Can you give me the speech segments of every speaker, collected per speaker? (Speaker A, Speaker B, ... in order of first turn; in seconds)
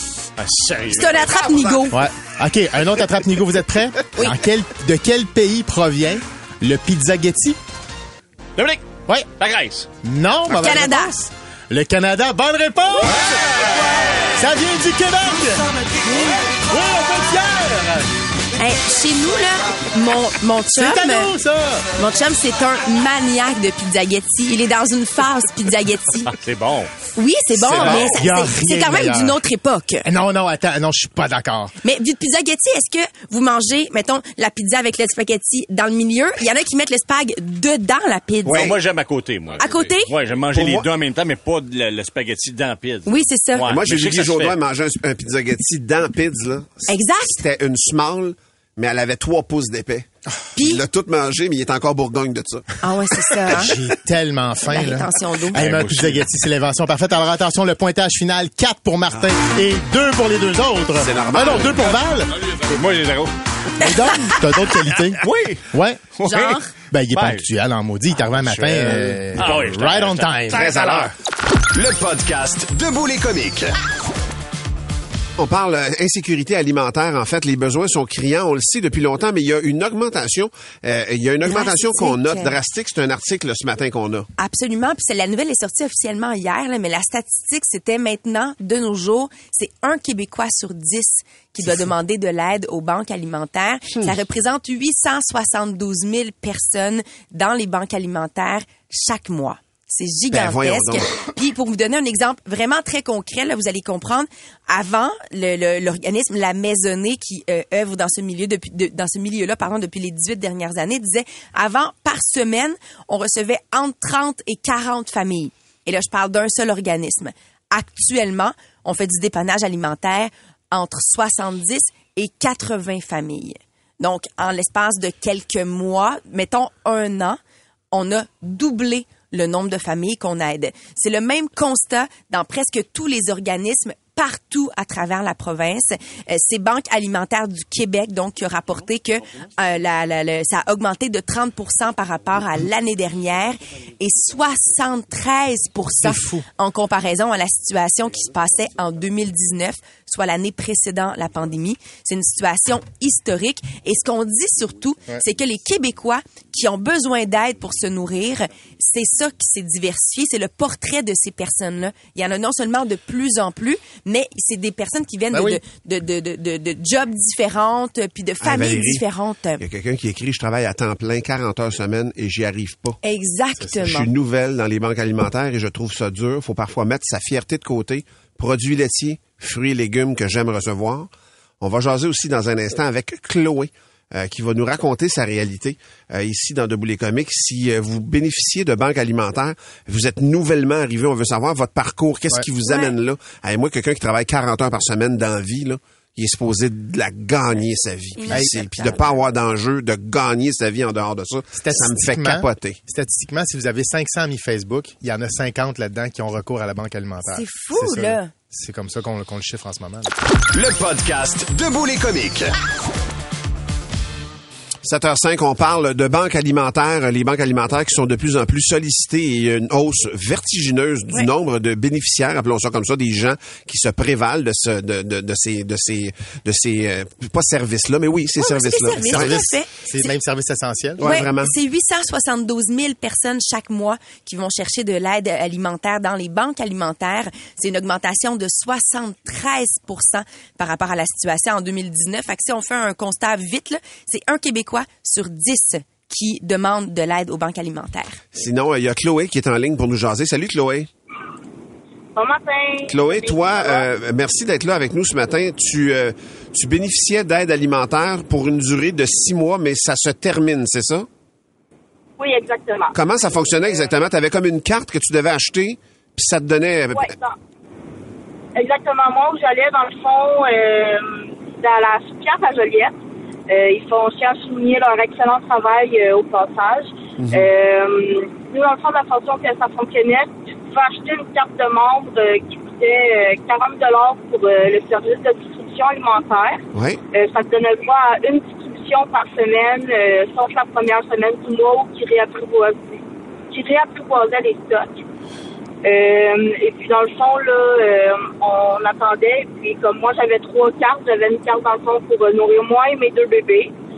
Speaker A: 0.4-1.6, 8.6-9.9, 26.3-26.9, 38.5-44.6, 55.5-56.3, 62.5-63.3, 65.2-65.6, 66.3-66.6, 67.1-67.5, 68.3-71.1
Speaker B: 0.9-2.0, 10.5-11.1, 18.6-21.3, 22.0-26.4, 27.2-30.1, 31.8-38.7, 39.6-40.1, 43.1-43.7, 46.9-47.4, 50.6-50.8, 52.8-53.7, 54.7-55.6, 63.8-64.2, 66.2-66.7, 81.5-82.6, 84.4-127.4, 127.9-169.6, 173.0-174.1, 192.7-192.9, 198.2-199.0, 207.2-208.3, 228.4-230.1, 231.0-248.2
Speaker C: 1.9-7.6, 10.0-13.3, 14.3-15.7, 16.6-17.8, 20.7-21.9, 27.6-29.4, 30.1-31.7, 53.5-62.3, 63.8-66.1, 66.8-70.8, 146.0-146.4, 165.3-165.6, 198.3-198.6, 201.6-210.1, 229.0-231.0
Speaker D: 38.5-38.8, 40.5-40.9, 43.6-52.7, 61.0-61.9, 70.5-71.1, 75.4-84.3, 100.3-101.3, 168.4-169.0, 169.6-173.0, 173.7-181.1, 181.6-202.8, 214.8-229.3, 231.0-231.5, 248.3-250.9, 252.9-261.1, 262.9-267.1, 277.2-277.5, 286.7-287.0
Speaker E: 71.7-73.8, 210.5-212.5
Speaker F: 252.2-253.9, 262.2-262.9, 266.9-267.3, 268.6-272.9, 273.5-295.1, 295.8-303.7